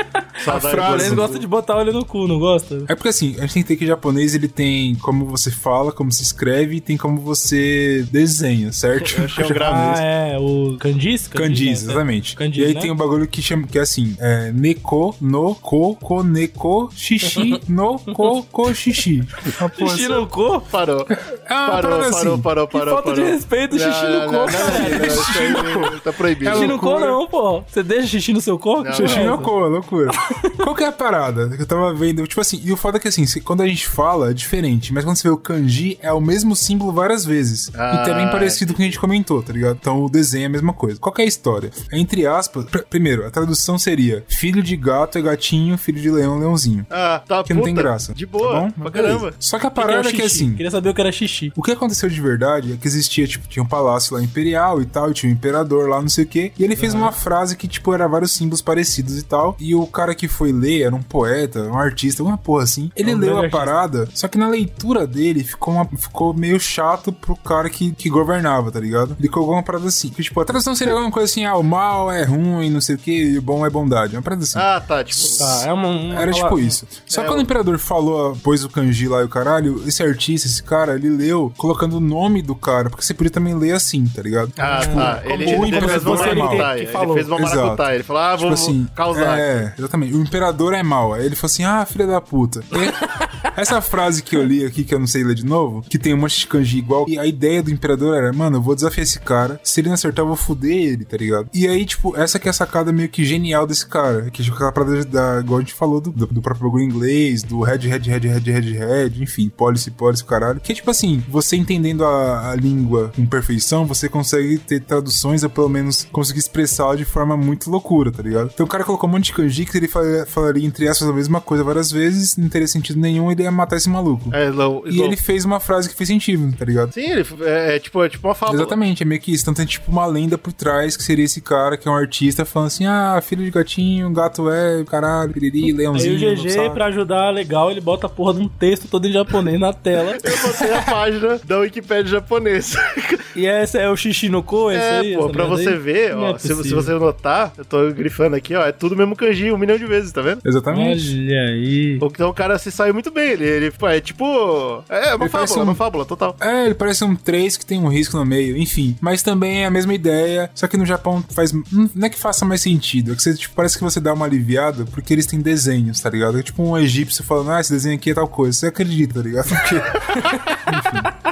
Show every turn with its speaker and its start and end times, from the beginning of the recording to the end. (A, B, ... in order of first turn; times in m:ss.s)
0:00.4-0:01.4 A
0:00.4-0:02.9 B
0:00.5-0:01.3 C
0:02.9-0:10.0 C
0:09.0-0:10.0 A
0:09.6-0:12.9 B
0:11.3-0:20.2 C
0:19.8-0:20.6 B
0:20.7-0:21.1 A
0:21.1-0:22.4 C
0:21.6-0:26.8 A
0:22.7-0:25.6 B
0:24.5-0:27.2 C
0:26.5-0:29.5 B
0:28.8-0:29.4 A
0:28.9-0:46.9 C
0:30.2-0:30.5 B
0:37.7-0:39.0 A
0:46.9-0:49.3 A
0:47.4-0:50.6 C
0:49.8-0:51.5 B
0:51.5-1:26.7 C
0:56.8-0:57.1 B
1:03.0-1:03.7 B
1:14.5-1:15.6 A
1:15.4-1:16.8 B
1:17.1-1:17.5 A
1:24.6-1:29.6 A
1:24.6-1:27.3 B
1:27.3-1:27.8 C
1:28.4-2:04.4 C
1:33.0-1:33.5 B
2:04.3-2:05.2 A
2:04.9-2:06.9 C
2:06.9-2:08.8 A
2:08.5-2:16.8 C
2:15.9-2:20.3 B
2:20.2-2:23.2 A
2:23.3-2:26.9 B
2:24.7-2:30.4 A
2:30.4-2:31.1 C
2:30.7-2:32.0 B
2:32.0-2:36.4 A
2:35.2-2:35.8 C
2:36.4-2:51.1 C
2:50.2-2:50.6 B